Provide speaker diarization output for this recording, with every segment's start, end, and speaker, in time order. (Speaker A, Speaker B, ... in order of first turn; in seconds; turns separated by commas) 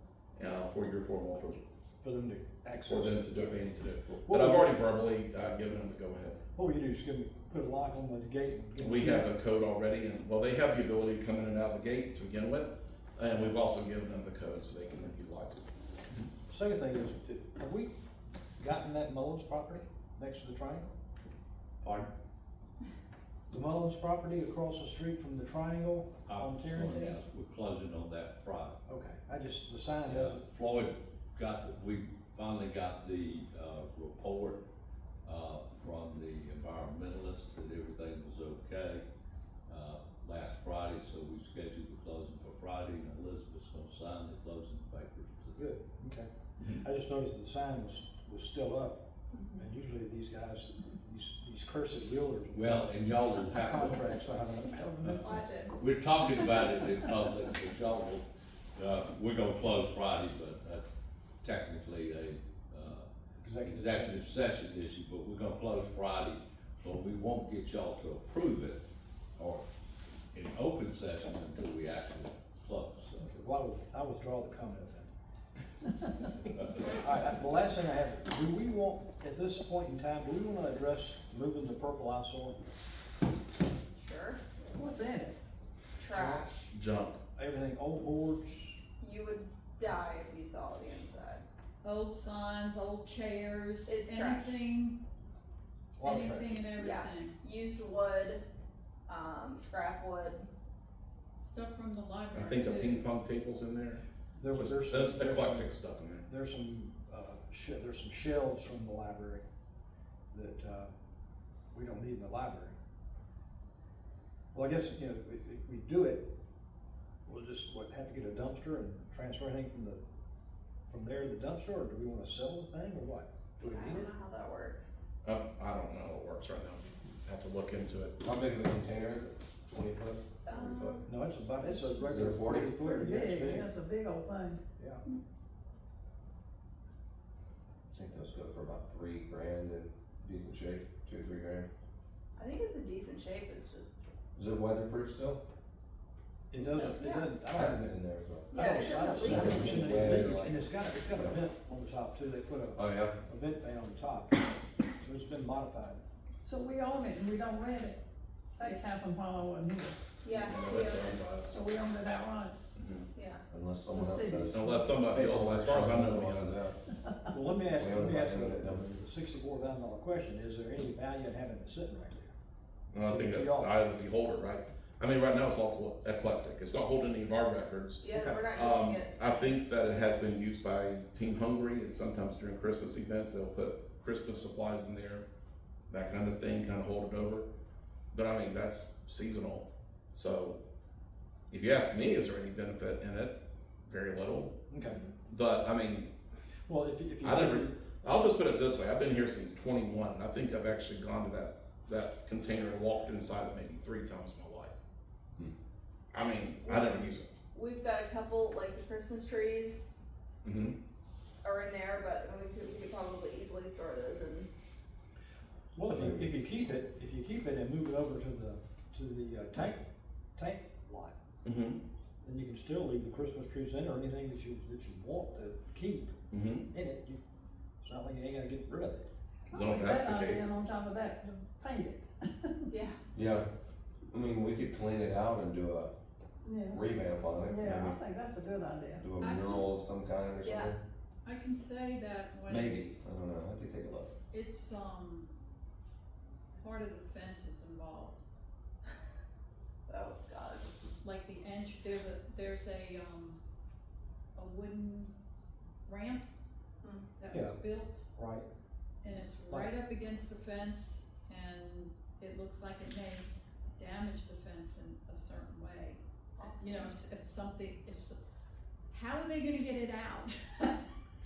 Speaker A: 0.4-1.6, Speaker B: 2.0-4.8, Speaker A: 2.9-6.4, Speaker B: 6.5-9.3, Speaker A: 8.8-15.7, Speaker B: 16.5-17.9, Speaker B: 18.6-20.9, Speaker C: 21.8-22.1, Speaker B: 23.5-27.2, Speaker C: 26.3-28.8, Speaker B: 28.9-30.4, Speaker C: 30.1-34.6, Speaker C: 35.2-39.0, Speaker C: 39.7-45.7, Speaker B: 45.6-49.0, Speaker B: 49.5-54.9, Speaker C: 52.5-54.2, Speaker D: 54.6-55.1, Speaker C: 55.0-63.1, Speaker E: 55.2-55.6, Speaker B: 63.4-64.2, Speaker C: 63.6-68.8, Speaker C: 69.4-69.7, Speaker C: 70.3-73.4, Speaker B: 73.3-75.1, Speaker B: 76.7-82.6, Speaker E: 83.9-84.4, Speaker D: 84.7-85.4, Speaker E: 86.0-86.6, Speaker A: 86.1-87.2, Speaker B: 87.4-88.8, Speaker E: 89.0-91.4, Speaker F: 91.8-95.0, Speaker E: 93.9-94.5, Speaker B: 96.0-96.5, Speaker F: 96.0-97.4, Speaker E: 96.8-98.4, Speaker E: 99.1-100.5, Speaker F: 101.4-102.9, Speaker A: 102.3-106.3, Speaker B: 104.4-105.7, Speaker B: 106.3-109.4, Speaker B: 110.3-110.9, Speaker B: 111.7-112.8, Speaker B: 114.5-116.3, Speaker B: 117.3-120.0, Speaker B: 120.9-124.1, Speaker E: 123.6-125.0, Speaker A: 125.2-128.2, Speaker G: 128.2-131.0, Speaker E: 130.5-131.1, Speaker B: 131.1-133.7, Speaker D: 131.7-132.1, Speaker G: 132.1-132.8, Speaker D: 132.6-134.6, Speaker B: 134.8-135.0, Speaker G: 137.9-141.7, Speaker E: 142.4-144.0, Speaker G: 144.3-145.4, Speaker B: 146.5-147.9, Speaker A: 146.6-147.0, Speaker E: 146.8-147.3, Speaker G: 147.5-148.5, Speaker B: 148.5-154.4, Speaker E: 148.5-150.1, Speaker G: 149.2-151.4, Speaker G: 152.8-153.2, Speaker B: 155.0-156.0, Speaker D: 156.4-158.0, Speaker D: 158.6-159.9, Speaker E: 160.2-161.2, Speaker A: 160.3-161.7, Speaker D: 161.5-162.6, Speaker A: 162.8-163.1, Speaker E: 163.1-163.4, Speaker G: 163.5-166.8, Speaker D: 163.9-164.9, Speaker A: 164.5-166.6, Speaker B: 167.3-172.3, Speaker G: 167.7-168.8, Speaker A: 172.9-185.3, Speaker B: 173.1-173.7, Speaker E: 178.0-179.2, Speaker B: 178.1-178.4, Speaker A: 185.9-187.5, Speaker A: 188.1-190.6, Speaker A: 191.5-194.6, Speaker B: 194.7-195.0, Speaker E: 194.9-195.2, Speaker A: 195.2-196.1, Speaker B: 196.7-197.8, Speaker A: 197.2-204.8, Speaker A: 206.1-207.3, Speaker E: 206.7-209.8, Speaker A: 210.4-210.8, Speaker E: 211.4-214.5, Speaker B: 215.8-219.8, Speaker G: 215.9-216.2, Speaker B: 220.4-221.2, Speaker A: 221.4-221.8, Speaker B: 222.2-226.1, Speaker A: 226.3-226.7, Speaker B: 226.7-227.2, Speaker B: 227.8-229.1, Speaker D: 229.5-232.7, Speaker A: 229.5-230.5, Speaker E: 232.7-233.0, Speaker G: 233.1-233.5, Speaker G: 234.1-235.9, Speaker D: 236.4-236.8, Speaker G: 236.7-238.0, Speaker D: 237.4-239.2, Speaker G: 239.0-240.8, Speaker F: 239.2-239.6, Speaker E: 240.4-240.7, Speaker F: 241.2-242.8, Speaker G: 242.5-244.1, Speaker F: 244.3-245.3, Speaker F: 246.6-248.2, Speaker E: 249.9-250.7, Speaker F: 251.0-253.4, Speaker F: 254.3-255.2, Speaker F: 255.8-256.3, Speaker E: 256.8-257.1, Speaker F: 257.2-258.0, Speaker B: 257.3-257.6, Speaker B: 258.2-258.5, Speaker F: 259.0-266.0, Speaker E: 266.4-266.9, Speaker F: 266.6-268.2, Speaker F: 268.9-270.8